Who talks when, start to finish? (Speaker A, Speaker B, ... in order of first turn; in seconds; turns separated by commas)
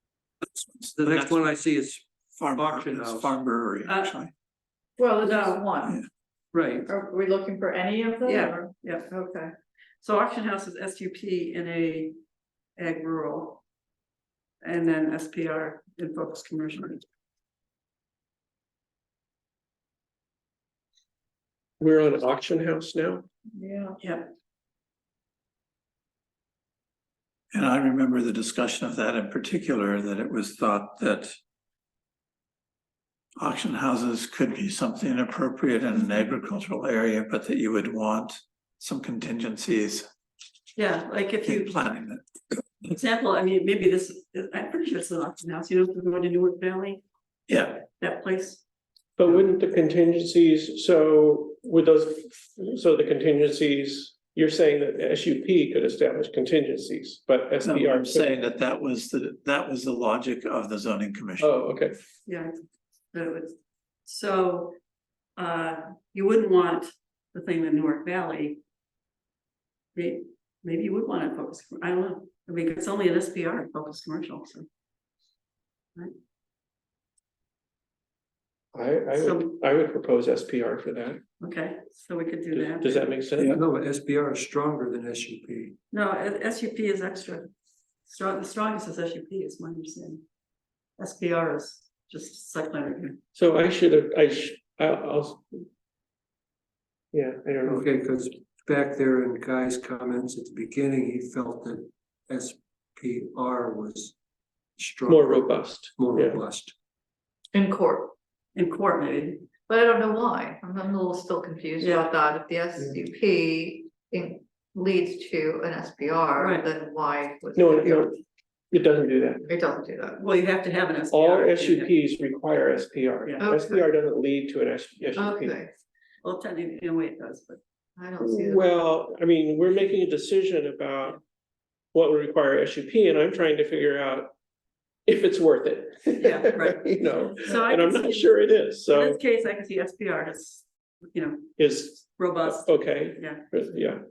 Speaker A: 0.8-1.5, Speaker B: 0.9-3.4, Speaker A: 2.4-4.3, Speaker C: 3.9-4.1, Speaker D: 5.0-6.0, Speaker C: 5.2-5.6, Speaker B: 6.5-6.9, Speaker D: 6.9-9.5, Speaker C: 8.2-9.1, Speaker C: 10.0-12.2, Speaker C: 12.8-13.6, Speaker C: 14.6-17.0, Speaker E: 21.8-23.2, Speaker D: 23.6-24.0, Speaker C: 24.0-24.3, Speaker A: 27.5-31.3, Speaker A: 33.4-40.0, Speaker C: 40.7-41.7, Speaker A: 41.4-42.2, Speaker C: 42.9-47.0, Speaker A: 47.5-47.8, Speaker C: 48.0-48.6, Speaker E: 49.2-58.4, Speaker A: 57.6-61.5, Speaker E: 61.4-62.0, Speaker C: 62.2-62.6, Speaker C: 63.1-64.7, Speaker C: 65.4-68.6, Speaker C: 69.9-74.7, Speaker E: 78.7-81.2, Speaker C: 79.1-79.5, Speaker C: 81.4-83.1, Speaker E: 82.5-83.6, Speaker B: 83.5-85.8, Speaker C: 85.9-87.5, Speaker C: 88.0-90.2, Speaker C: 91.0-93.2, Speaker E: 93.3-95.6, Speaker E: 97.1-97.9, Speaker B: 97.6-104.2, Speaker B: 104.8-106.7, Speaker E: 105.1-106.4, Speaker D: 107.5-108.1, Speaker C: 108.5-109.5, Speaker D: 109.7-118.1, Speaker C: 111.8-112.1, Speaker C: 116.4-116.7, Speaker E: 117.5-118.2, Speaker E: 118.7-119.5, Speaker D: 119.5-120.2, Speaker C: 120.2-121.9, Speaker E: 121.1-125.6, Speaker C: 123.2-123.5, Speaker D: 123.4-123.8, Speaker D: 125.2-125.7, Speaker C: 126.2-127.6, Speaker D: 128.0-128.7, Speaker E: 128.2-131.2, Speaker E: 131.9-134.3, Speaker E: 135.1-139.2, Speaker C: 136.2-138.3, Speaker C: 138.9-143.5, Speaker E: 141.6-144.0